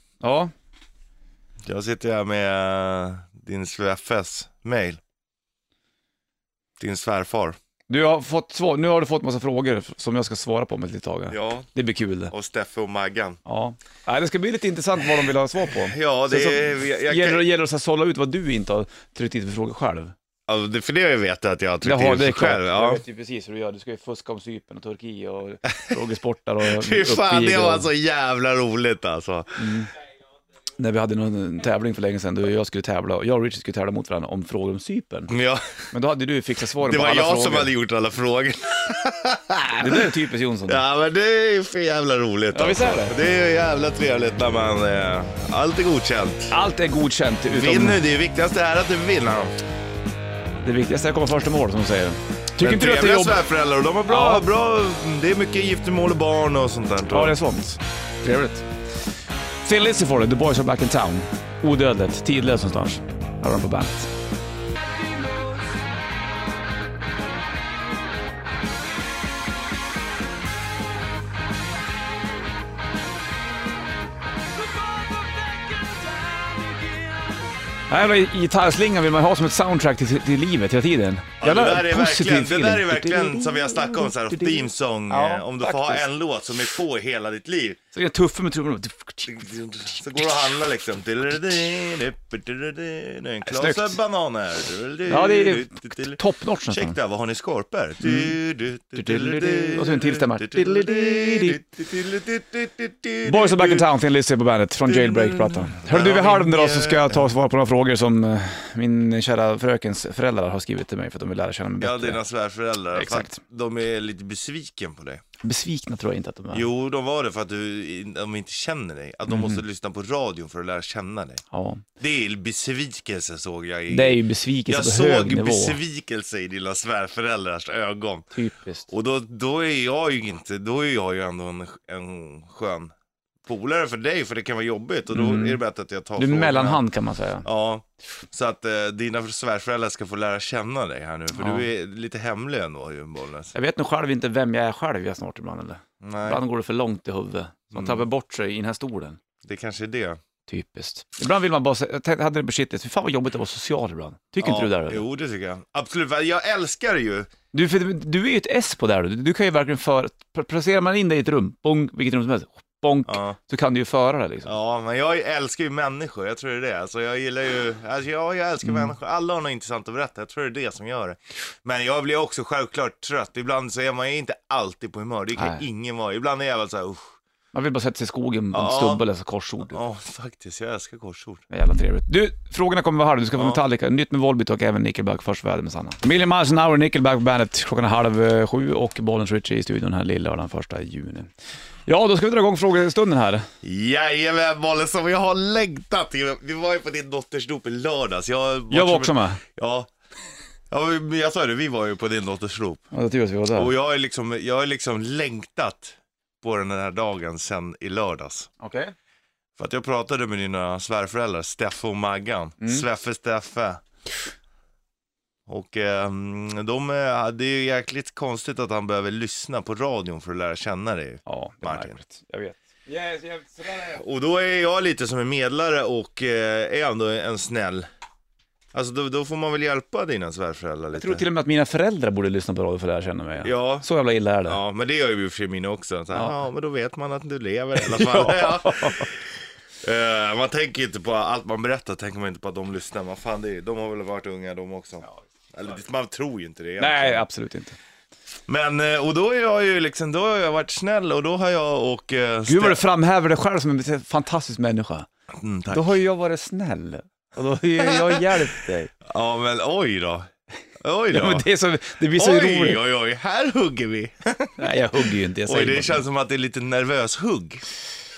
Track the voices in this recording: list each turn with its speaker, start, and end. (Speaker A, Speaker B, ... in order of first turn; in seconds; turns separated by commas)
Speaker A: 0.2-0.5, Speaker B: 1.7-5.0, Speaker B: 6.8-7.6, Speaker A: 7.9-12.3, Speaker B: 11.3-11.7, Speaker B: 12.3-13.4, Speaker A: 13.5-20.1, Speaker B: 15.8-17.4, Speaker B: 20.5-23.0, Speaker A: 21.8-27.9, Speaker B: 25.7-25.9, Speaker B: 26.6-29.7, Speaker A: 29.6-29.9, Speaker A: 30.8-35.3, Speaker B: 35.3-35.8, Speaker A: 35.9-37.7, Speaker B: 36.8-40.1, Speaker A: 39.8-40.8, Speaker B: 40.7-46.6, Speaker A: 42.5-43.1, Speaker A: 46.5-48.0, Speaker B: 47.5-49.5, Speaker A: 50.6-53.4, Speaker B: 52.6-57.4, Speaker A: 54.1-54.5, Speaker A: 57.1-58.7, Speaker A: 59.6-64.1, Speaker A: 76.4-76.9, Speaker A: 77.9-86.0, Speaker B: 81.4-87.8, Speaker A: 87.9-89.5, Speaker B: 89.3-103.8, Speaker A: 93.5-94.0, Speaker A: 95.1-97.0, Speaker A: 98.0-98.4, Speaker A: 99.0-101.6, Speaker A: 103.2-112.2, Speaker B: 104.9-107.3, Speaker B: 111.8-115.2, Speaker A: 112.9-113.4, Speaker A: 115.4-116.7, Speaker B: 116.5-121.4, Speaker A: 119.3-119.6, Speaker A: 121.5-121.8, Speaker B: 122.0-128.3, Speaker A: 123.9-125.8, Speaker A: 128.3-128.9, Speaker B: 128.9-132.9, Speaker B: 133.4-136.8, Speaker A: 135.1-135.6, Speaker A: 136.2-137.5, Speaker B: 137.4-143.5, Speaker A: 141.3-141.7, Speaker A: 143.5-149.2, Speaker B: 146.0-146.4, Speaker B: 147.7-148.0, Speaker B: 149.4-150.2, Speaker A: 150.5-155.0, Speaker B: 154.4-157.3, Speaker A: 157.5-164.5, Speaker B: 163.1-163.4, Speaker B: 164.4-177.2, Speaker A: 168.7-168.9, Speaker A: 175.4-175.6, Speaker A: 177.5-179.8, Speaker B: 178.5-179.0, Speaker B: 179.7-181.5, Speaker A: 181.5-191.3, Speaker B: 183.3-183.6, Speaker A: 191.9-193.5, Speaker B: 193.6-199.9, Speaker A: 198.7-199.4, Speaker B: 200.7-202.8, Speaker A: 202.9-203.7, Speaker B: 203.5-208.5, Speaker A: 208.6-208.9, Speaker B: 209.6-213.8, Speaker A: 212.6-212.9, Speaker B: 215.5-222.0, Speaker A: 221.3-224.0, Speaker B: 223.8-227.9, Speaker B: 228.7-231.2, Speaker A: 230.9-234.6, Speaker B: 233.4-233.9, Speaker B: 234.5-247.2, Speaker A: 236.1-236.4, Speaker A: 237.8-239.1, Speaker A: 246.8-247.8, Speaker B: 248.5-252.8, Speaker A: 252.5-255.1, Speaker B: 255.3-256.0, Speaker A: 255.7-258.9, Speaker B: 257.8-258.3, Speaker B: 259.0-261.5, Speaker A: 261.1-262.8, Speaker B: 262.1-267.6, Speaker A: 264.6-266.0